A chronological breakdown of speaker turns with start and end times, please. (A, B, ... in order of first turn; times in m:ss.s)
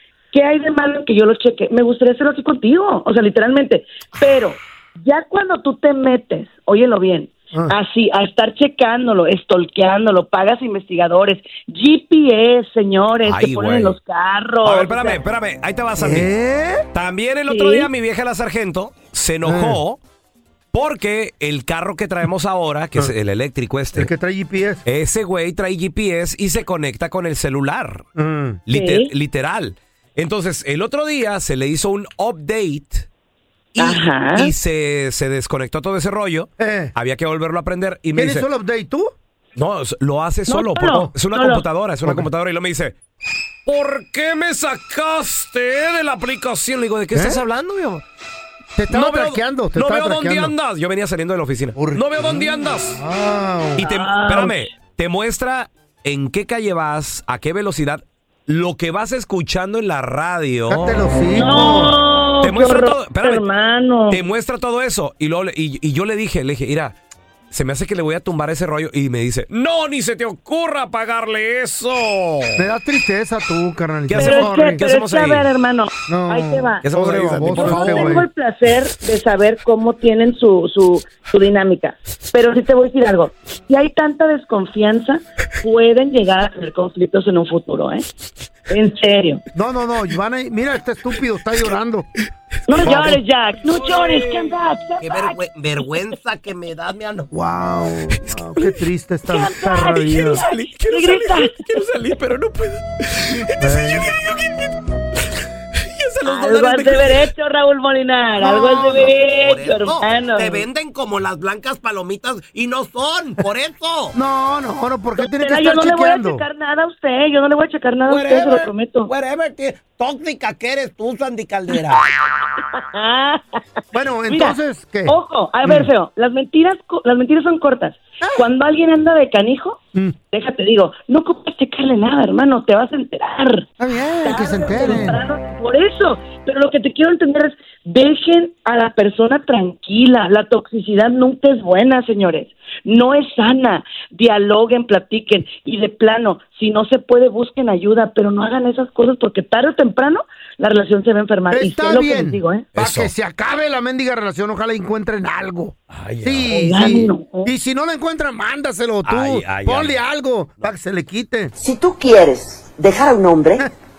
0:00.3-0:15.2 A
0:13.2-0:13.9 B
0:14.6-0:16.3 B
0:16.0-0:16.9 C
0:16.9-0:20.0 B
0:17.5-0:17.9 A
0:19.4-0:19.8 C
0:20.7-0:24.1 B
0:23.9-0:24.8 C
0:24.9-0:28.1 B
0:28.2-0:28.6 C
0:28.7-0:33.1 B
0:28.7-0:29.1 A
0:33.7-0:38.4 B
0:33.8-0:34.5 A
0:36.6-0:36.9 C
0:38.1-0:39.1 C
0:39.6-0:43.0 B
0:40.5-0:41.6 A
0:43.7-0:48.0 B
0:47.1-0:47.4 C
0:48.8-0:50.5 C
0:48.9-0:53.0 B
0:51.8-0:53.8 C
0:53.8-0:54.6 A
0:53.8-1:01.0 B
1:00.7-1:01.9 C
1:01.4-1:04.2 A
1:02.4-1:03.4 B
1:04.1-1:06.9 B
1:07.5-1:12.6 B
1:12.6-1:14.8 C
1:14.1-1:15.5 B
1:14.2-1:16.8 A
1:16.1-1:18.3 C
1:16.8-1:18.2 B
1:17.5-1:28.0 A
1:28.7-1:29.4 A
1:29.6-1:32.1 C
1:32.7-1:35.4 A
1:32.8-1:33.2 C
1:33.7-1:34.5 B
1:35.0-1:37.3 D
1:37.3-1:40.4 C
1:39.3-1:41.6 A
1:40.3-1:44.8 B
1:43.6-1:44.1 C
1:45.9-1:47.2 B
1:46.2-1:50.6 A
1:48.4-1:49.1 C
1:49.2-1:54.1 D
1:54.1-1:56.4 C
1:55.2-1:59.1 A
1:58.1-2:02.0 D
2:02.7-2:03.6 A
2:03.9-2:05.9 C
2:04.3-2:09.8 A
2:10.3-2:13.7 A
2:13.8-2:15.2 C
2:14.2-2:32.6 A
2:31.5-2:41.5 C
2:32.8-2:33.1 B
2:35.9-2:36.5 B
2:36.5-2:37.5 A
2:39.0-2:39.9 B
2:41.6-2:43.7 E